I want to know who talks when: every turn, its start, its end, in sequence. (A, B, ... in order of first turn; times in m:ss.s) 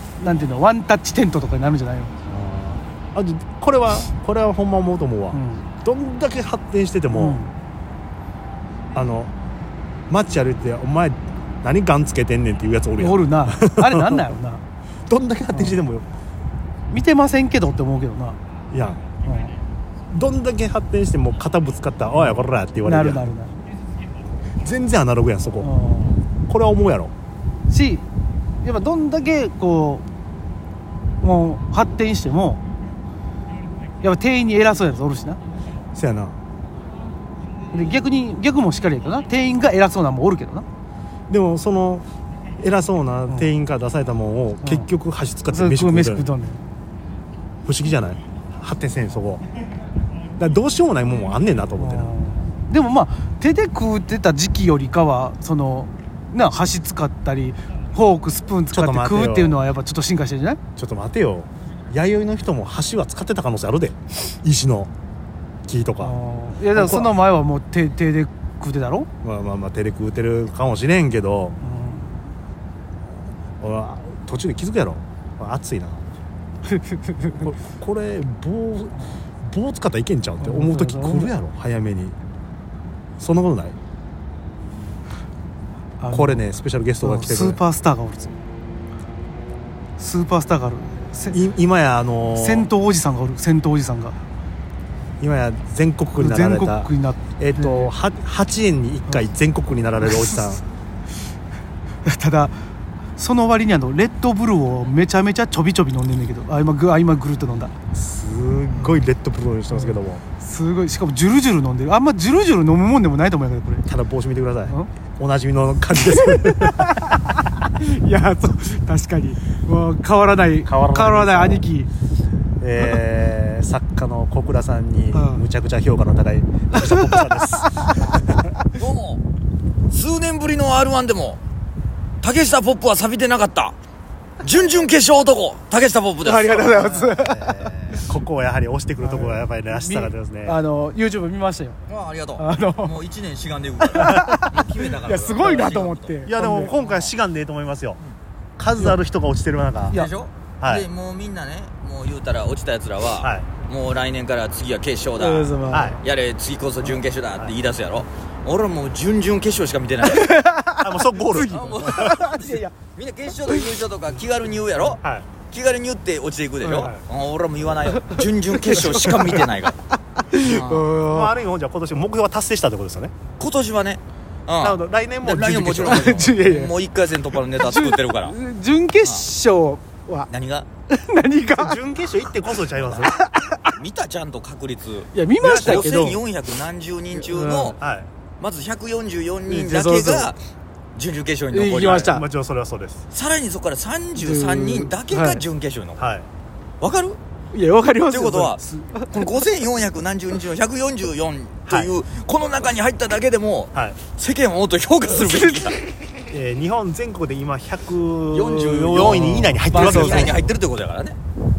0:00.2-0:02.1 A
0:02.3-0:07.4 B
0:05.3-0:05.7 A
0:07.1-0:07.5 A
0:08.9-0:09.3 B
0:10.1-0:14.3 B
0:13.0-0:14.6 A
0:15.1-0:16.1 B
0:15.5-0:15.8 A
0:16.9-0:18.4 A
0:18.7-0:19.0 B
0:19.2-0:19.5 A
0:20.1-0:23.2 B
0:22.8-0:23.5 A
0:24.6-0:25.7 B
0:25.6-0:26.2 A
0:26.4-0:27.1 B
0:27.7-0:28.1 A
0:28.6-0:30.0 A
0:31.2-0:32.6 A
0:34.0-0:35.4 A
0:35.9-0:36.4 B
0:37.7-0:40.6 A
0:41.3-0:42.0 B
0:42.6-0:46.3 B
0:44.6-0:44.9 A
0:45.5-0:46.6 A
0:47.6-0:49.4 B
0:50.4-0:52.1 B
0:51.8-1:00.6 A
0:58.7-0:59.6 B
1:00.8-1:04.9 B
1:05.7-1:06.1 B
1:06.0-1:09.1 A
1:06.7-1:07.2 B
1:09.2-1:11.6 B
1:11.6-1:12.2 A
1:13.6-1:16.0 B
1:16.6-1:17.5 A
1:17.4-1:22.1 B
1:20.4-1:21.3 A
1:23.2-1:23.8 B
1:26.0-1:26.4 A
1:26.1-1:27.6 B
1:27.0-1:28.3 A
1:30.0-1:31.4 A
1:31.3-1:32.7 B
1:32.3-1:34.2 A
1:35.2-1:40.6 B
1:36.2-1:37.9 A
1:42.0-1:42.6 A
1:43.2-1:47.7 A
1:47.9-1:50.2 B
1:49.7-1:53.9 A
1:53.9-1:56.9 B
1:56.2-2:01.9 A
2:00.6-2:01.7 B
2:02.6-2:07.9 B
2:05.1-2:05.4 A
2:06.7-2:08.2 A
2:08.7-2:09.2 C
2:09.9-2:11.4 C
2:12.2-2:13.8 C
2:14.4-2:17.0 C
2:16.2-2:18.1 A
2:16.6-2:20.6 B
2:19.0-2:21.8 A
2:21.9-2:26.2 C
2:22.4-2:23.0 A
2:23.8-2:26.7 A
2:24.0-2:24.4 B
2:26.2-2:28.0 B
2:26.8-2:27.1 C
2:28.6-2:30.0 B
2:29.9-2:40.3 C
2:30.6-2:30.9 B
2:33.2-2:33.5 B
2:35.2-2:36.0 A
2:35.7-2:36.0 B
2:40.0-2:42.7 A
2:40.8-2:42.0 B
2:41.5-2:49.8 C
2:45.0-2:45.3 B
2:46.6-2:47.0 B
2:47.9-2:49.5 A
2:50.1-2:51.3 A
2:50.4-2:50.9 C
2:51.0-2:53.1 B
2:53.4-2:58.4 C
2:54.6-2:56.2 B
2:55.8-2:56.7 A
2:57.5-3:00.3 A
2:59.0-2:59.3 C
3:00.3-3:00.7 C
3:00.9-3:01.8 A
3:01.5-3:03.2 B
3:03.0-3:03.7 A
3:03.7-3:07.8 C
3:05.1-3:06.2 A
3:05.4-3:06.2 B
3:07.2-3:07.8 A
3:07.8-3:08.1 B
3:08.4-3:10.4 C
3:09.5-3:10.2 A
3:09.5-3:10.3 B
3:10.9-3:12.1 C
3:11.5-3:12.2 A
3:11.8-3:13.0 B
3:13.1-3:16.0 C
3:14.2-3:15.4 A
3:16.0-3:16.3 B
3:16.8-3:17.2 C
3:17.5-3:19.3 A
3:18.1-3:25.8 C
3:21.7-3:21.9 B
3:25.2-3:25.7 A
3:26.3-3:30.4 B
3:28.3-3:31.2 C
3:28.9-3:30.5 A